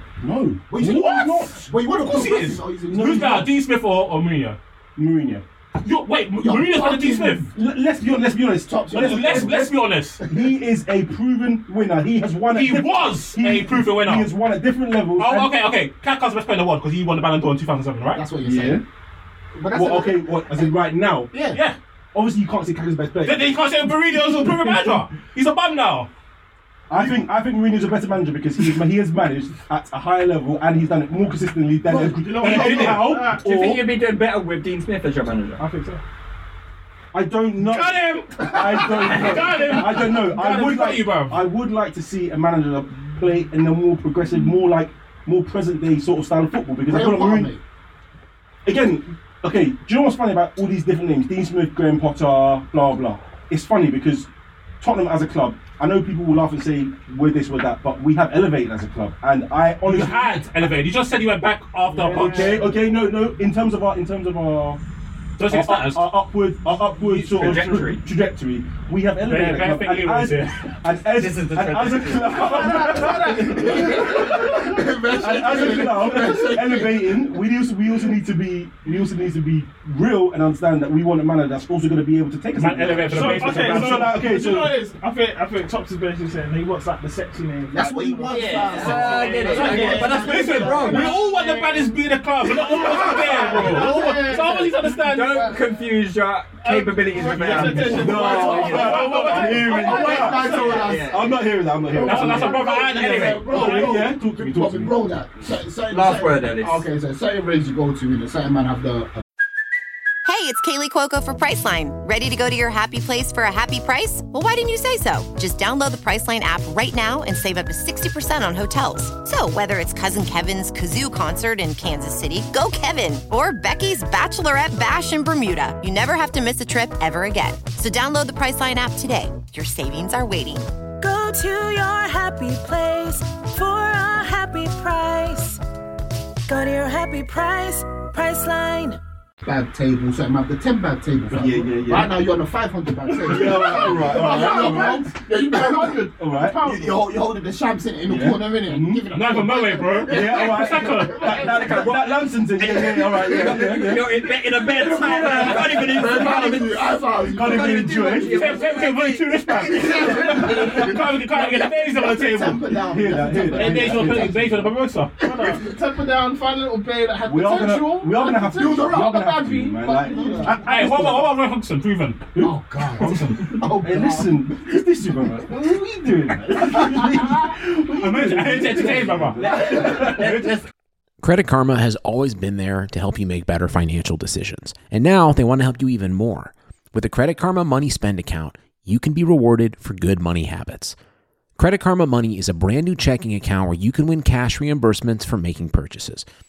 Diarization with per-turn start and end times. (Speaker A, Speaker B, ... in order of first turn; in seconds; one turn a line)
Speaker A: 0.2-1.6
Speaker B: 0.7-3.5
Speaker C: 0.8-1.3
Speaker C: 2.0-4.6
Speaker A: 2.9-3.5
Speaker A: 5.0-5.4
Speaker C: 5.8-7.5
Speaker B: 6.4-7.5
Speaker A: 7.5-15.6
Speaker B: 8.6-9.7
Speaker C: 8.9-10.2
Speaker C: 12.5-14.3
Speaker C: 15.2-18.2
Speaker B: 18.1-18.8
Speaker A: 18.4-18.8
Speaker B: 19.6-21.6
Speaker A: 19.7-21.3
Speaker C: 21.5-21.8
Speaker A: 22.1-23.5
Speaker C: 23.2-26.1
Speaker A: 26.9-33.9
Speaker D: 31.9-33.4
Speaker C: 32.4-33.3
Speaker E: 33.3-35.6
Speaker D: 35.6-36.0
Speaker A: 37.1-47.5
Speaker C: 37.6-41.4
Speaker B: 46.9-47.6
Speaker A: 48.6-54.3
Speaker A: 54.8-60.3
Speaker C: 59.9-62.6
Speaker D: 61.9-62.9
Speaker A: 62.1-64.8
Speaker C: 65.4-66.1
Speaker A: 65.5-84.8
Speaker C: 67.0-67.8
Speaker E: 67.3-68.0
Speaker C: 69.2-70.6
Speaker E: 71.1-72.6
Speaker D: 72.3-74.7
Speaker B: 72.8-77.3
Speaker C: 82.5-84.2
Speaker D: 83.1-92.0
Speaker B: 87.7-91.1
Speaker E: 88.3-91.1
Speaker C: 89.5-95.5
Speaker D: 92.6-95.6
Speaker B: 93.7-94.0
Speaker E: 95.0-99.1
Speaker D: 96.6-100.3
Speaker A: 97.4-102.7
Speaker C: 97.7-100.9
Speaker B: 99.5-109.2
Speaker E: 100.5-101.2
Speaker D: 101.9-102.8
Speaker C: 102.0-103.9
Speaker A: 103.3-105.0
Speaker E: 105.9-106.8
Speaker F: 110.2-130.7
Speaker G: 131.0-135.6
Speaker G: 136.5-139.0
Speaker B: 139.4-151.9
Speaker A: 141.3-142.2
Speaker A: 143.2-146.9
Speaker D: 143.4-145.0
Speaker D: 146.3-146.9
Speaker A: 148.1-149.0
Speaker C: 149.1-151.4
Speaker A: 150.0-154.2
Speaker E: 151.2-159.2
Speaker B: 152.6-158.9
Speaker A: 155.0-156.5
Speaker A: 157.3-158.6
Speaker C: 158.2-162.7
Speaker B: 159.5-164.7
Speaker A: 162.7-164.6
Speaker C: 163.5-165.2
Speaker D: 165.2-170.7
Speaker B: 165.3-165.8
Speaker A: 167.2-171.3
Speaker B: 167.6-170.8
Speaker C: 170.5-173.5
Speaker B: 172.4-177.5
Speaker A: 173.0-180.5
Speaker C: 177.9-180.5
Speaker E: 179.5-180.7
Speaker B: 179.5-180.1
Speaker H: 181.2-190.9
Speaker H: 191.6-196.3